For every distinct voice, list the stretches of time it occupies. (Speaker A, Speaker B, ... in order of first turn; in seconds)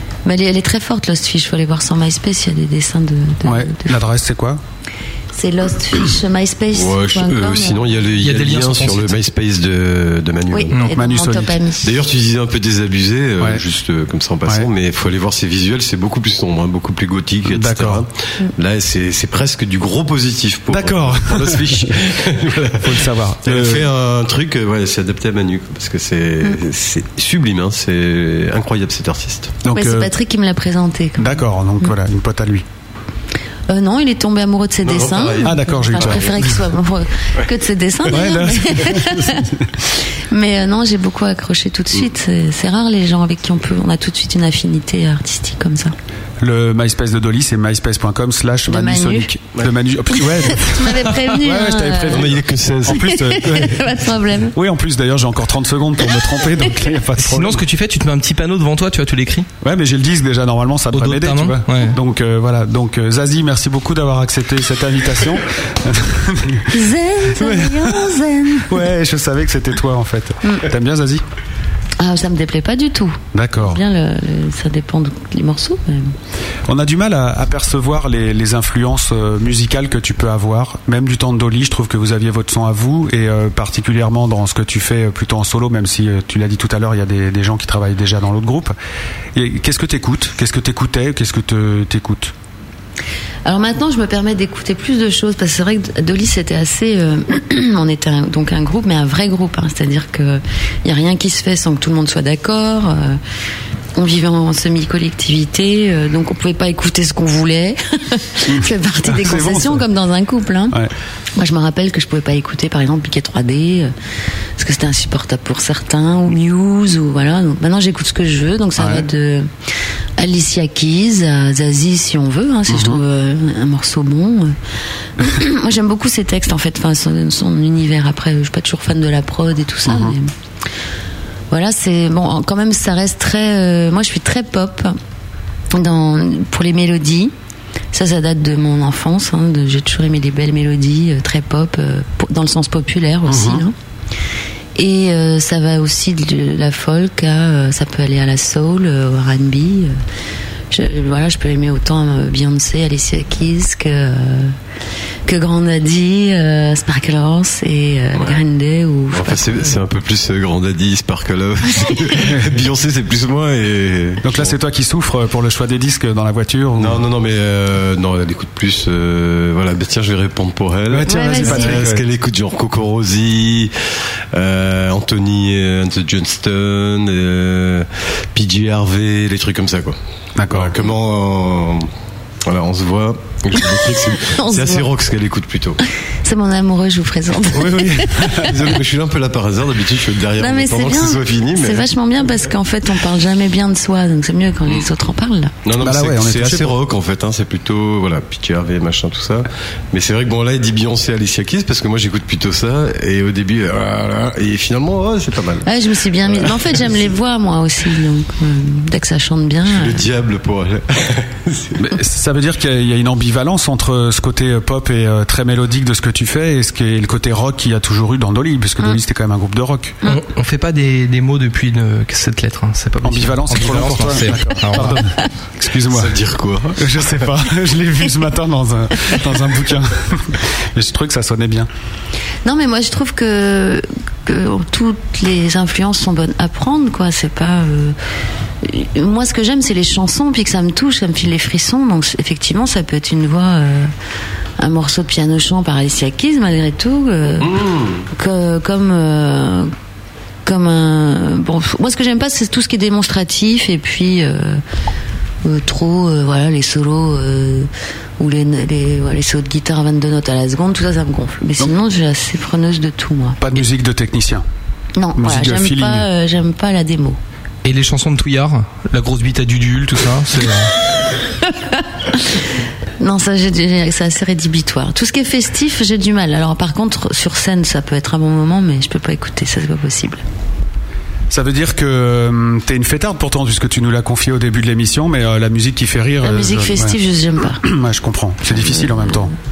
Speaker A: 0.2-4.0, 5.3-7.9, 10.5-11.9, 29.7-31.9, 33.7-39.6, 40.3-46.0, 48.7-49.3, 50.4-52.4, 52.9-54.6, 66.7-68.8, 72.0-76.1, 93.5-103.2, 104.0-110.8, 111.4-113.9, 114.6-119.5, 120.2-124.6, 125.2-130.3, 131.5-135.0, 135.7-137.3, 137.9-143.7, 144.8-150.0, 150.7-154.6, 155.3-159.6, 171.1-171.8, 184.2-184.9, 186.2-188.5, 190.4-195.5, 205.7-210.0, 232.4-238.0, 238.6-243.9, 244.6-247.6, 248.1-249.7, 250.5-254.6, 255.4-263.4, 265.0-267.2, 272.1-272.4, 273.0-280.2, 286.2-287.6, 288.5-289.3
Speaker B: 3.5-4.6, 10.9-11.6, 17.5-18.1, 20.7-21.9, 22.8-23.9, 29.6-30.1, 31.2-32.6, 35.4-36.6, 38.1-39.7, 46.4-53.9, 54.5-57.6, 59.6-66.8, 67.3-71.2, 73.3-73.8, 76.7-88.8, 89.3-92.3, 108.5-109.8, 118.8-119.1, 122.7-123.0, 129.9-130.2, 143.3-143.7, 164.2-167.0, 170.9-172.1, 180.4-180.7, 187.5-188.6, 195.8-196.8, 211.8-220.0, 223.0-226.2, 226.8-231.7, 263.4-264.4, 265.2-266.1, 281.3-287.0, 287.6-289.3
Speaker C: 6.7-10.8, 11.8-29.6, 34.8-36.7, 52.1-53.6, 158.1-158.4, 159.1-164.5, 166.8-173.7, 174.3-180.0, 180.5-181.9, 182.4-185.8, 188.3-191.9, 195.7-205.7, 206.3-206.7, 209.7-211.8, 225.9-226.9, 247.4-248.1
Speaker D: 8.2-9.2, 57.2-59.5, 60.9-62.0, 220.0-225.0, 267.6-270.7